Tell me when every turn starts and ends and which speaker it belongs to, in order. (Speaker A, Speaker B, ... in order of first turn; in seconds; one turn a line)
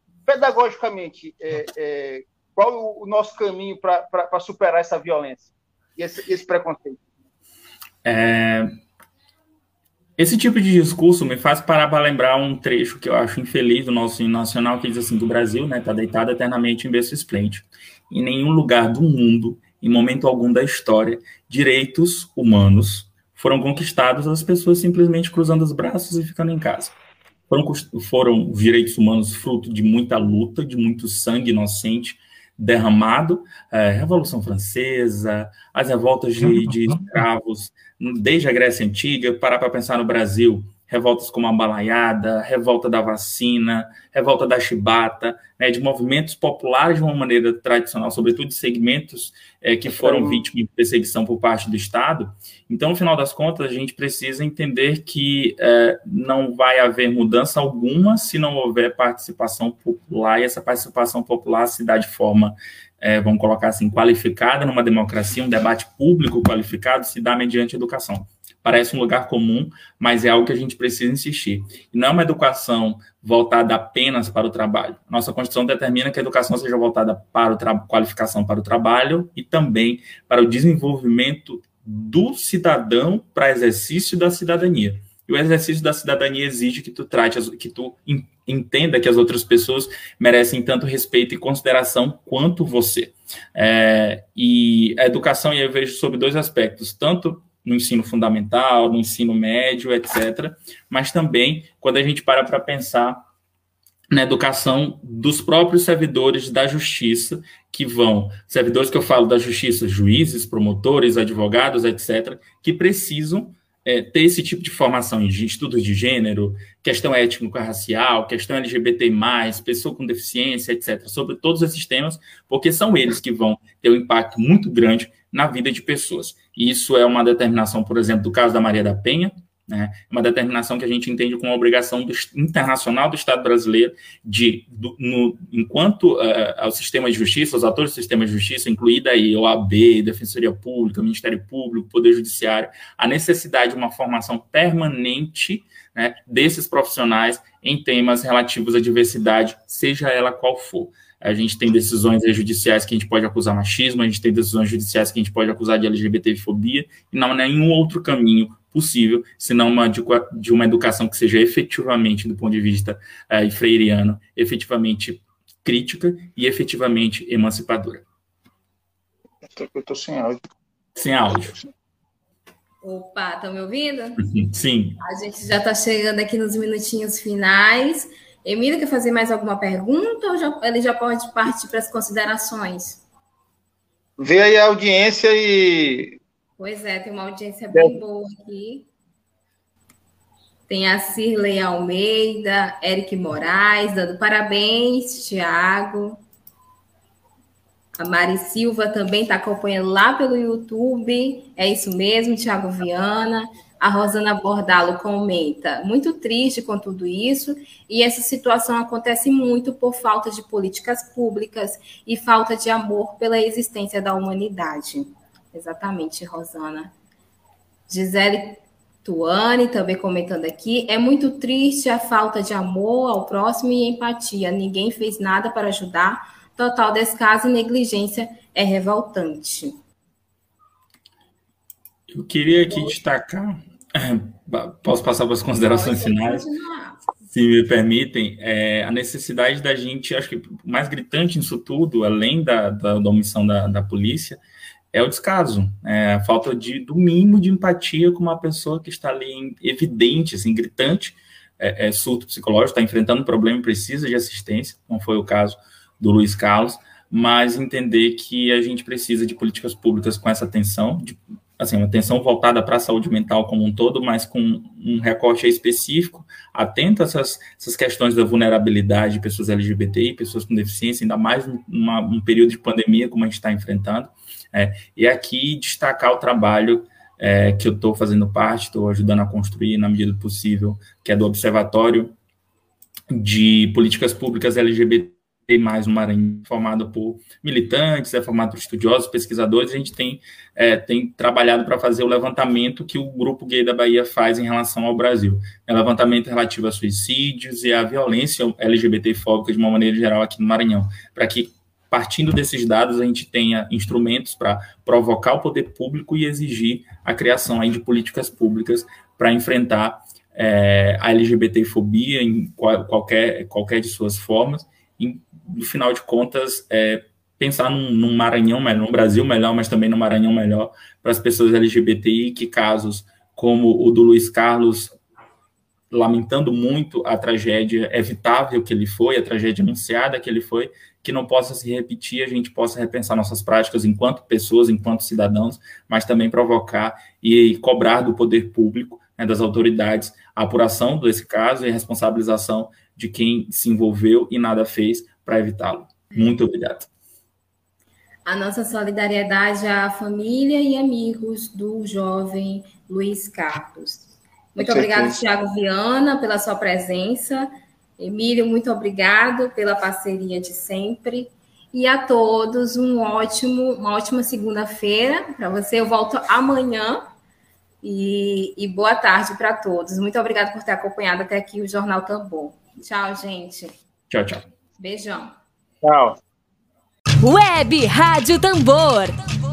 Speaker A: 0.3-7.0
Speaker B: 8.0-8.8
Speaker B: 10.2-26.9
Speaker B: 27.5-103.2
Speaker A: 49.9-50.5
Speaker B: 104.1-168.1
Speaker A: 169.4-170.4
Speaker B: 170.9-171.6
Speaker C: 172.8-174.3
Speaker B: 174.2-175.0
Speaker C: 175.0-183.0
Speaker A: 184.2-186.2
Speaker C: 186.6-188.9
Speaker C: 190.7-196.2
Speaker C: 198.0-216.9
Speaker C: 217.9-229.7
Speaker B: 232.1-236.5
Speaker C: 232.7-232.9
Speaker C: 235.6-237.0
Speaker B: 237.3-244.4
Speaker B: 244.9-282.1
Speaker B: 283.1-325.0
Speaker B: 325.9-346.9
Speaker C: 348.2-367.1
Speaker A: 354.6-355.2
Speaker C: 367.8-373.7
Speaker B: 374.1-374.5
Speaker C: 374.8-375.4
Speaker A: 375.8-376.2
Speaker D: 377.2-379.2